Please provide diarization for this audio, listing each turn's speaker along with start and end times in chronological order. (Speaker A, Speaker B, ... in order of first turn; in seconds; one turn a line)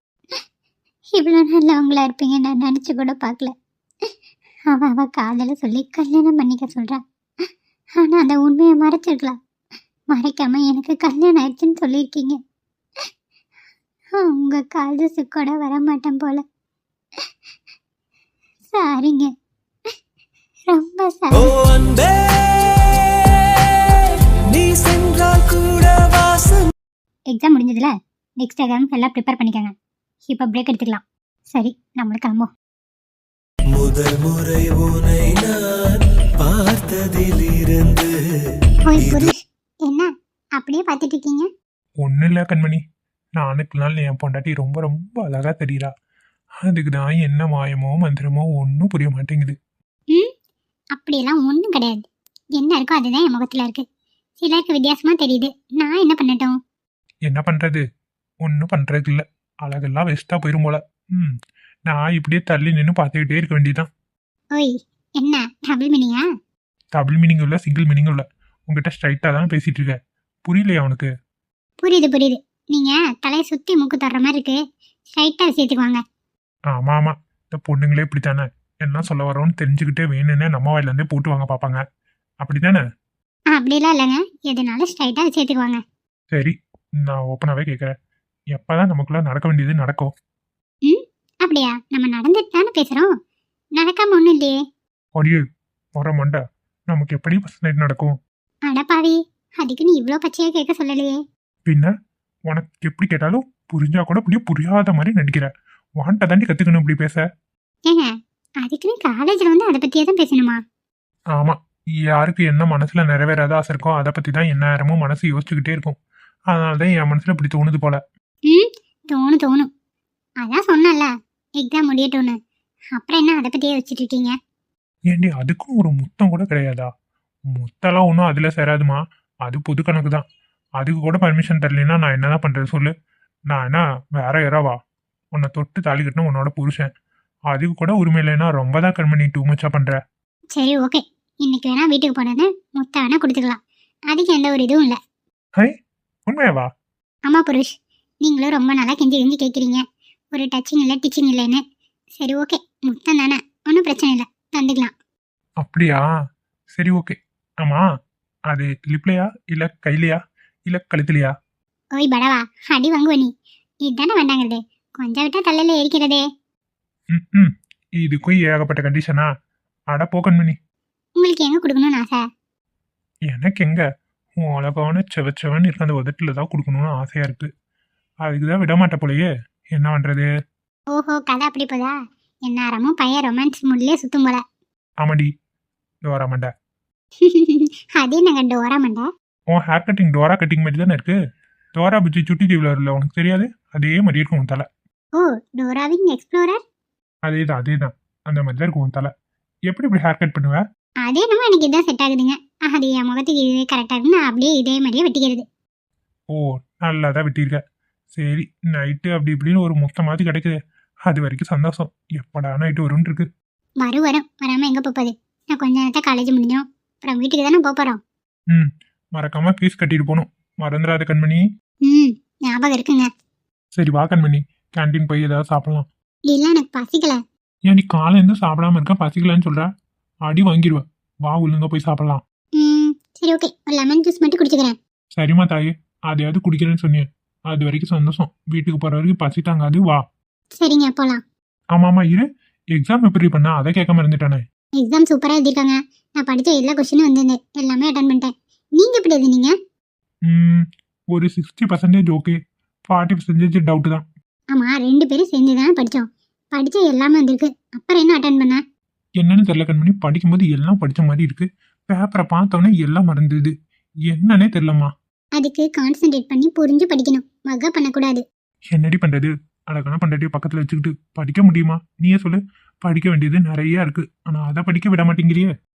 Speaker A: 1.1-3.5
Speaker A: 4.7-9.3
Speaker A: 10.1-12.4
Speaker A: 14.1-16.4
Speaker A: 18.7-19.3
Speaker A: 20.7-21.5
Speaker B: 21.3-26.7
Speaker A: 27.3-29.7
Speaker A: 30.3-32.5
Speaker B: 33.7-38.1
Speaker A: 38.9-41.5
Speaker B: 39.0-39.3
Speaker C: 42.0-42.8
Speaker C: 43.4-45.9
Speaker C: 46.6-49.6
Speaker A: 50.9-53.8
Speaker A: 54.4-56.5
Speaker C: 57.3-57.8
Speaker C: 58.4-61.3
Speaker C: 61.9-63.9
Speaker A: 64.5-66.2
Speaker C: 66.9-71.1
Speaker A: 71.8-74.6
Speaker A: 75.2-76.0
Speaker C: 76.7-81.8
Speaker C: 82.4-82.8
Speaker A: 83.5-85.8
Speaker C: 86.3-87.9
Speaker C: 88.5-90.1
Speaker A: 90.8-93.1
Speaker A: 93.8-94.6
Speaker C: 95.2-95.4
Speaker C: 96.0-98.2
Speaker A: 98.7-101.2
Speaker C: 102.5-107.2
Speaker A: 108.6-110.6
Speaker C: 112.1-116.0
Speaker C: 116.5-118.0
Speaker A: 118.5-119.7
Speaker A: 120.4-122.3
Speaker A: 122.9-124.3
Speaker C: 125.1-126.9
Speaker C: 127.5-130.2
Speaker C: 130.8-132.9
Speaker C: 133.5-134.8
Speaker C: 135.3-136.9
Speaker C: 137.5-139.9
Speaker A: 140.6-143.6
Speaker A: 144.1-144.9
Speaker C: 146.3-146.7
Speaker A: 147.3-147.7
Speaker A: 148.2-151.6
Speaker A: 152.2-154.9
Speaker C: 155.6-156.0
Speaker C: 156.8-157.8
Speaker C: 158.5-161.3
Speaker A: 162.0-163.3
Speaker A: 163.8-166.2
Speaker C: 167.1-169.3
Speaker C: 169.9-170.6
Speaker A: 171.2-172.2
Speaker C: 173.3-173.8
Speaker C: 174.3-177.5
Speaker C: 178.2-180.3
Speaker A: 180.9-181.9
Speaker A: 182.4-184.4
Speaker C: 185.0-185.3
Speaker C: 186.1-186.5
Speaker A: 187.2-189.1
Speaker C: 189.5-191.2
Speaker C: 191.7-194.7
Speaker A: 195.2-196.6
Speaker C: 197.3-199.1
Speaker C: 199.7-200.6
Speaker A: 201.0-205.4
Speaker C: 206.3-207.6
Speaker C: 208.2-213.3
Speaker A: 213.8-218.0
Speaker C: 218.5-221.4
Speaker A: 221.8-223.1
Speaker C: 223.8-225.9
Speaker A: 226.3-227.2
Speaker C: 227.7-229.7
Speaker C: 230.2-232.2
Speaker A: 232.6-234.8
Speaker C: 235.2-240.0
Speaker A: 240.6-241.2
Speaker C: 241.7-244.4
Speaker A: 244.8-249.5
Speaker C: 250.3-252.4
Speaker C: 252.9-254.1
Speaker A: 254.5-258.6
Speaker C: 259.2-263.5
Speaker C: 264.1-264.9
Speaker A: 265.4-268.2
Speaker C: 268.7-275.5